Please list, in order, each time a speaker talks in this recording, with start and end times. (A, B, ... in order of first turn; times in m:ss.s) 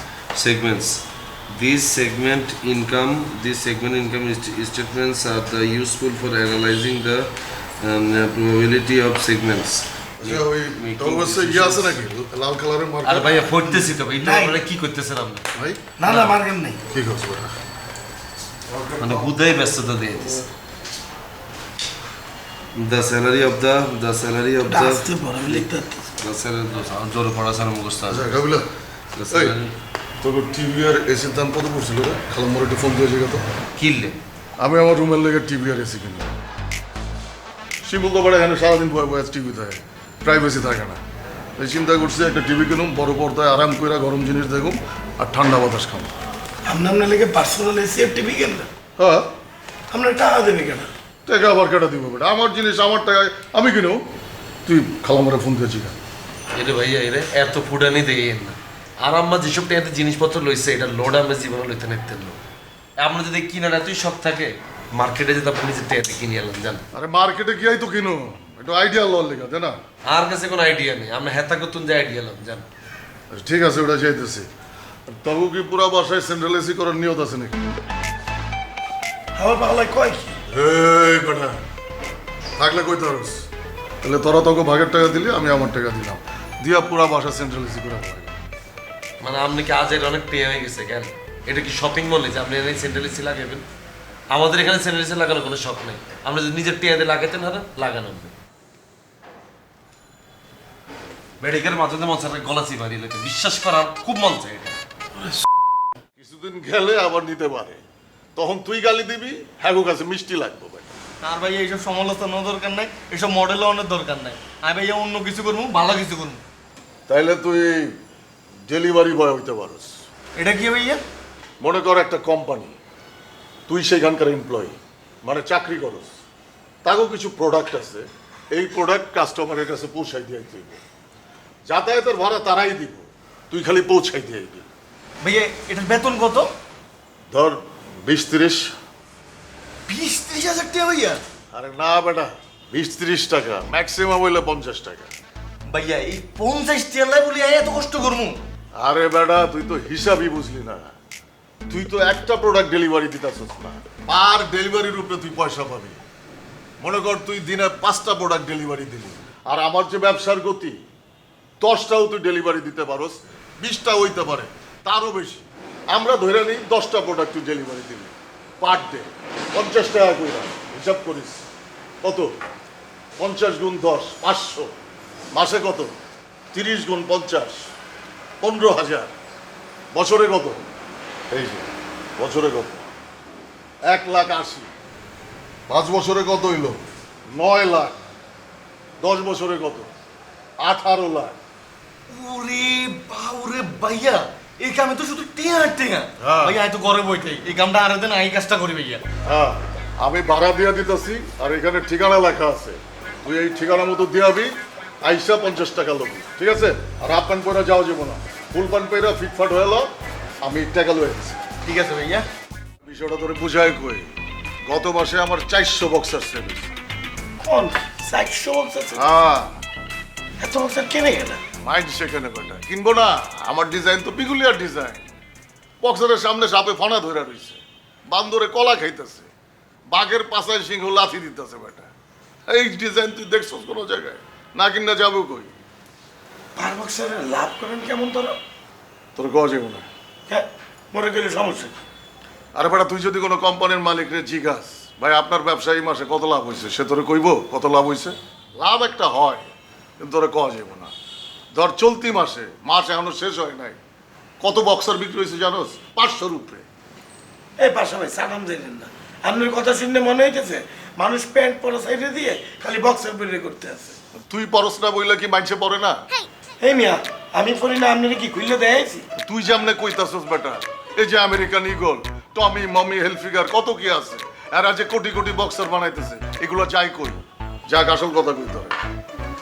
0:00.3-0:00.9 A
0:01.6-0:07.3 B
0:01.6-0:02.1 A
0:07.8-0:09.9 B
0:10.2-0:13.5 C
0:10.9-0:12.0 B
0:13.0-0:15.4 B
0:13.6-0:14.6 D
0:15.5-0:15.8 C
0:16.0-0:16.8 D
0:16.0-0:16.4 B
0:16.9-0:17.5 C
0:18.7-0:19.2 C
0:19.0-0:20.5 B
0:22.8-0:25.7 B
0:24.7-0:26.0 D
0:26.2-0:28.2 B
0:26.4-0:27.9 A
0:28.1-0:28.7 C
0:29.2-0:29.6 B
0:29.3-0:29.6 C
0:30.2-0:33.4 C
0:33.8-0:34.2 B
0:34.6-0:36.3 C
0:37.8-0:41.0 C
0:41.6-0:46.1 C
0:46.6-0:48.7 D
0:49.0-0:49.3 C
0:49.9-0:50.9 D
0:51.2-0:54.0 C
0:54.6-0:56.0 C
0:56.5-1:02.4 B
1:03.0-1:06.8 B
1:06.9-1:09.8 C
1:10.0-1:12.7 B
1:13.3-1:14.5 C
1:15.1-1:17.6 C
1:19.4-1:20.4 D
1:20.5-1:21.6 C
1:22.6-1:23.4 C
1:24.0-1:28.3 C
1:29.2-1:33.6 B
1:34.3-1:38.3 B
1:41.4-1:44.8 B
1:46.2-1:47.8 C
1:48.4-1:50.8 C
1:51.2-1:56.4 E
1:57.1-1:57.9 C
1:58.6-1:59.9 C
2:00.4-2:01.0 E
2:01.6-2:02.8 C
2:03.7-2:06.2 C
2:06.8-2:10.8 C
2:11.7-2:14.7 C
2:15.2-2:16.5 E
2:17.3-2:18.7 C
2:19.9-2:21.2 E
2:21.5-2:25.1 C
2:25.7-2:28.4 E
2:28.8-2:30.9 C
2:31.7-2:36.0 C
2:36.8-2:40.8 C
2:41.6-2:51.4 C
2:52.0-2:52.3 C
2:53.2-2:54.7 C
2:55.3-2:56.0 C
2:56.5-2:57.7 C
2:58.4-2:59.1 C
2:59.9-3:00.6 C
3:01.3-3:02.8 C
3:03.8-3:04.7 C
3:05.7-3:08.0 C
3:09.0-3:09.9 C
3:10.6-3:11.4 C
3:12.1-3:19.0 E
3:16.2-3:16.6 C
3:19.2-3:29.9 C
3:30.4-3:31.4 C
3:31.6-3:32.3 E
3:32.8-3:34.1 C
3:34.6-3:36.7 C
3:37.4-3:39.1 D
3:38.9-3:39.6 C
3:40.4-3:41.4 D
3:41.6-3:45.1 C
3:45.8-3:49.3 C
3:49.9-3:51.9 C
3:52.5-3:55.5 C
3:56.6-3:58.4 D
3:59.2-3:59.9 C
4:00.3-4:01.7 D
4:02.5-4:09.5 C
4:10.0-4:10.9 C
4:11.5-4:13.8 C
4:14.4-4:16.6 C
4:17.6-4:24.0 D
4:24.3-4:26.0 C
4:26.6-4:29.1 D
4:29.2-4:38.8 C